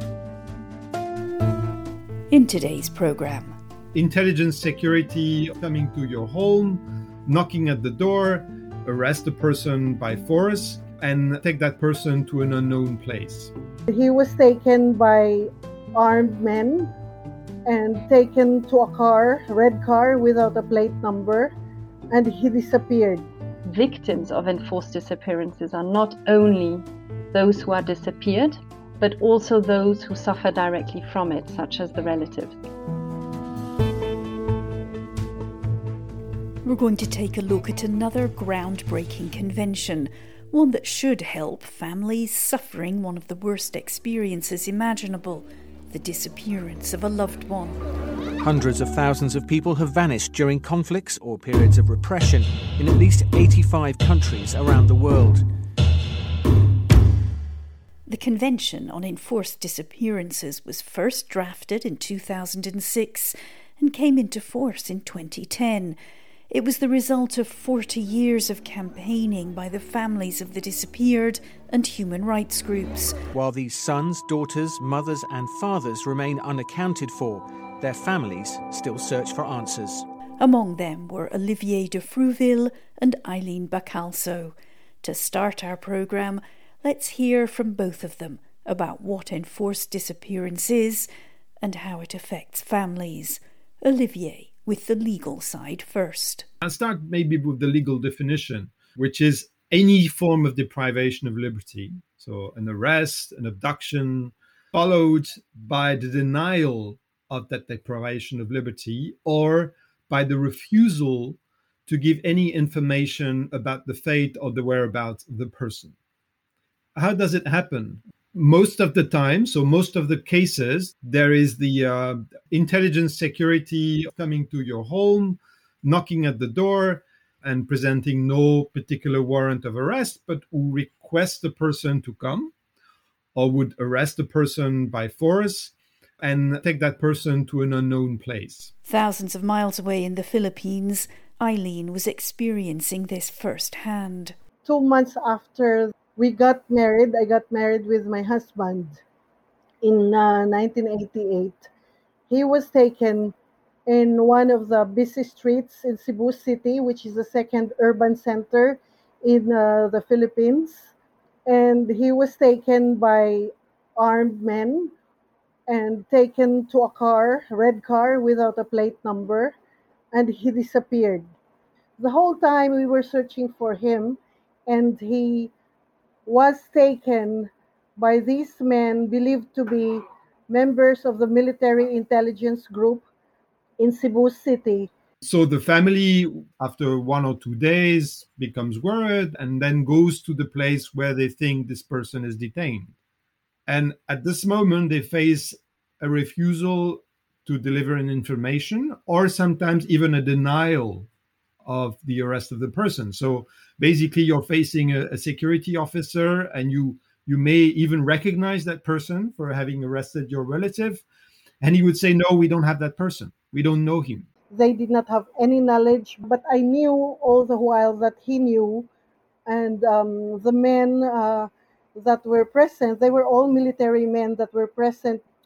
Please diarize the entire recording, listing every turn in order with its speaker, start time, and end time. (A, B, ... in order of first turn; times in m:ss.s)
0:02.3-0:03.5 A
0:03.9-0:13.5 B
0:13.9-0:16.9 C
0:17.6-0:21.5 C
0:22.1-0:23.2 C
0:23.6-0:32.6 D
0:36.6-0:47.8 A
0:48.4-0:55.4 E
0:58.1-1:06.0 A
1:06.5-1:13.2 A
1:13.3-1:20.0 E
1:20.4-1:31.1 A
1:31.6-1:36.5 A
1:36.6-1:55.9 B
1:57.0-2:12.5 B
2:13.3-2:18.7 B
2:18.8-2:24.3 A
2:24.6-2:29.0 C
2:29.8-2:31.7 C
2:32.3-2:33.3 C
2:33.9-2:40.9 C
2:41.4-2:44.9 C
2:45.7-2:49.5 C
2:50.1-2:51.3 C
2:52.0-2:55.5 C
2:56.2-3:03.0 C
3:03.8-3:04.9 C
3:05.2-3:12.9 B
3:13.7-3:21.1 B
3:21.6-3:31.0 B
3:31.6-3:34.3 B
3:34.5-3:38.9 C
3:39.5-3:45.2 C